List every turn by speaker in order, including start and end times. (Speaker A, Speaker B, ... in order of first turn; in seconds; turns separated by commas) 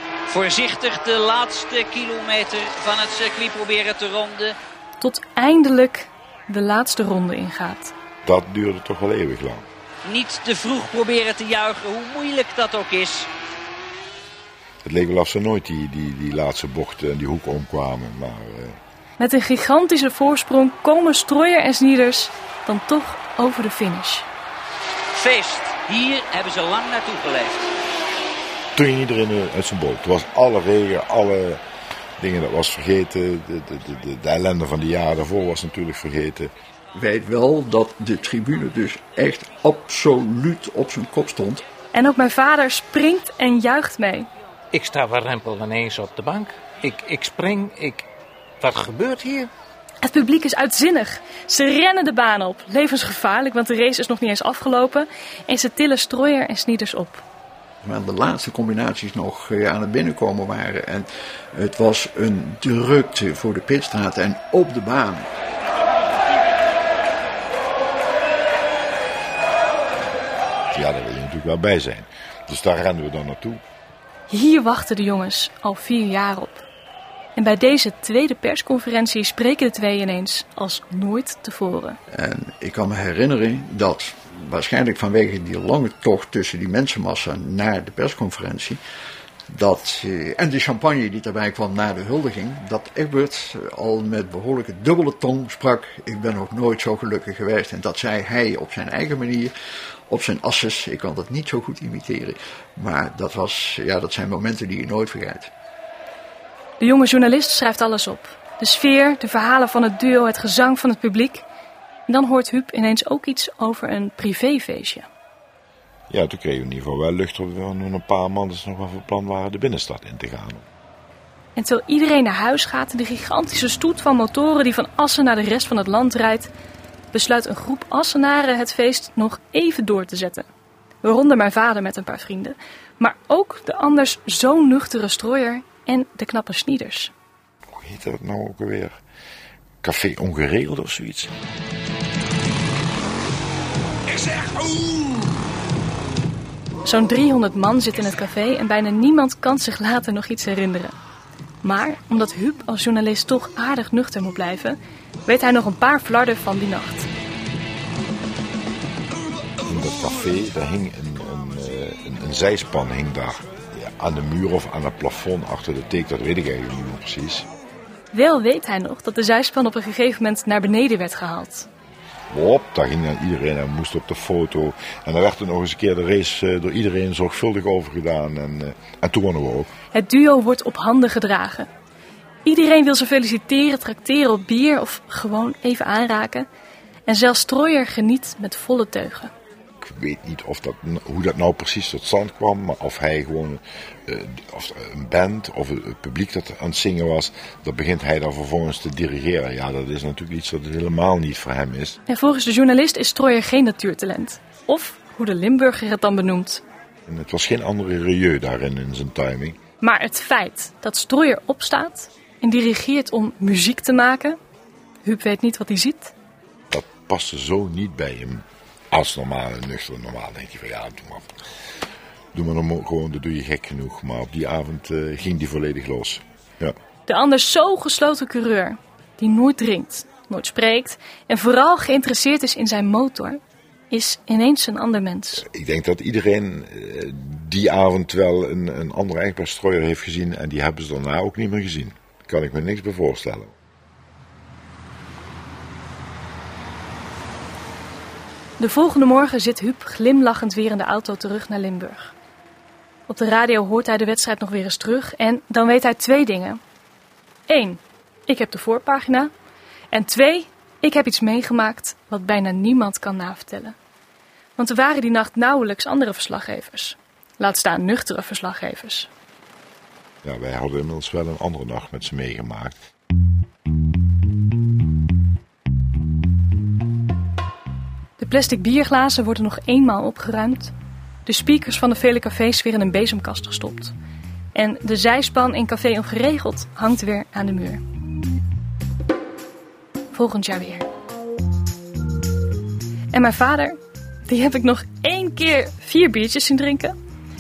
Speaker A: 0.3-4.6, Speaker B: 5.0-7.9, Speaker C: 8.2-9.7, Speaker A: 10.1-13.3, Speaker C: 14.8-18.8, Speaker B: 19.2-24.3, Speaker A: 25.1-27.7, Speaker C: 28.8-31.6, Speaker C: 32.2-36.5, Speaker D: 36.9-41.6, Speaker B: 41.9-44.3, Speaker E: 44.7-48.1, Speaker E: 48.6-49.5, Speaker B: 50.0-57.2, Speaker D: 57.8-65.3, Speaker C: 70.7-73.6, Speaker B: 74.3-76.7, Speaker B: 77.4-82.0, Speaker D: 82.1-88.8, Speaker D: 89.5-99.5, Speaker D: 100.1-105.5, Speaker B: 106.8-111.5, Speaker B: 112.1-115.1, Speaker C: 116.1-120.7, Speaker B: 121.6-126.5, Speaker B: 127.1-130.5, Speaker B: 131.0-137.1, Speaker C: 137.7-139.0, Speaker C: 139.8-141.3, Speaker B: 146.8-150.9, Speaker B: 151.6-157.1, Speaker C: 159.7-167.5, Speaker B: 168.1-171.7, Speaker C: 172.3-179.7, Speaker B: 179.9-181.7, Speaker B: 182.4-186.5, Speaker B: 187.1-189.3, Speaker C: 189.8-202.0, Speaker B: 202.1-206.6, Speaker C: 207.1-209.6, Speaker B: 209.8-214.4, Speaker B: 215.0-216.1, Speaker C: 216.7-221.3, Speaker C: 222.3-226.8, Speaker B: 227.1-235.4, Speaker C: 235.4-243.5, Speaker B: 248.6-252.1, Speaker B: 253.1-256.6, Speaker B: 257.5-259.3, Speaker B: 259.9-263.8, Speaker B: 264.6-269.1, Speaker C: 270.2-272.8, Speaker B: 278.2-280.7, Speaker B: 281.3-283.9, Speaker B: 284.5-287.8, Speaker B: 290.1-290.9, Speaker B: 293.1-297.0